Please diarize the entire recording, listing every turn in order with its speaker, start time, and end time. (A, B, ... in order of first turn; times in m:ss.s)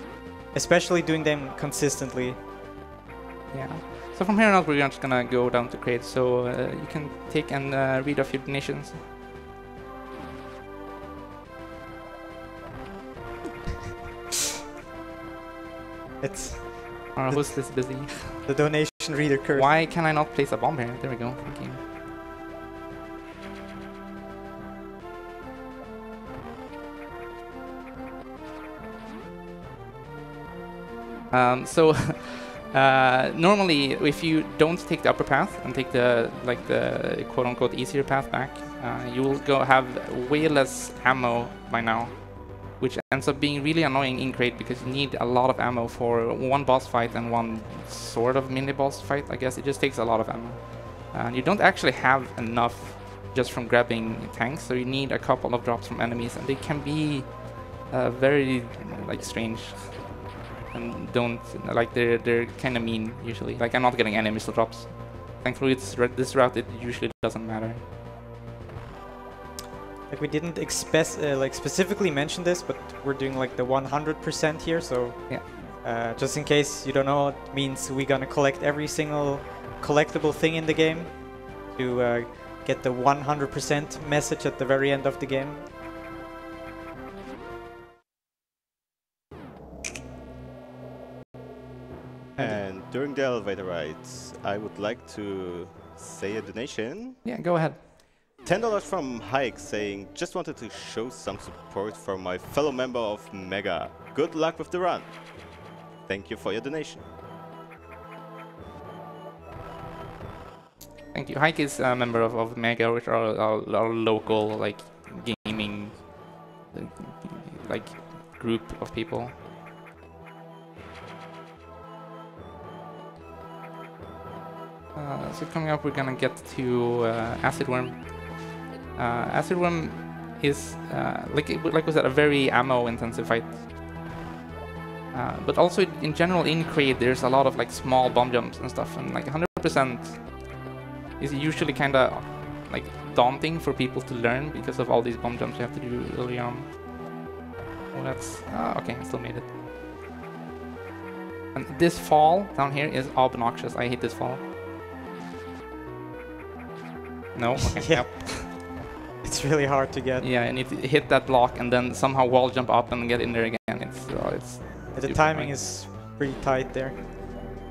0:00.5-0:02.4 A
0:03.5-0:09.0 B
0:16.2-0:19.7 A
0:17.1-0:18.4 B
0:19.6-0:21.8 B
0:31.3-1:07.8 B
1:10.1-1:25.6 A
1:32.4-1:37.2 C
1:37.2-1:37.8 B
1:38.4-1:47.0 C
1:51.1-1:59.4 B
2:05.0-2:14.0 B
2:15.1-2:20.6 B
2:21.2-2:26.8 B
2:27.9-2:29.6 B
2:31.5-2:34.4 B
2:37.3-2:38.5 B
2:37.6-2:38.7 A
2:39.2-2:40.3 A
2:40.2-2:45.6 B
2:44.9-2:47.0 A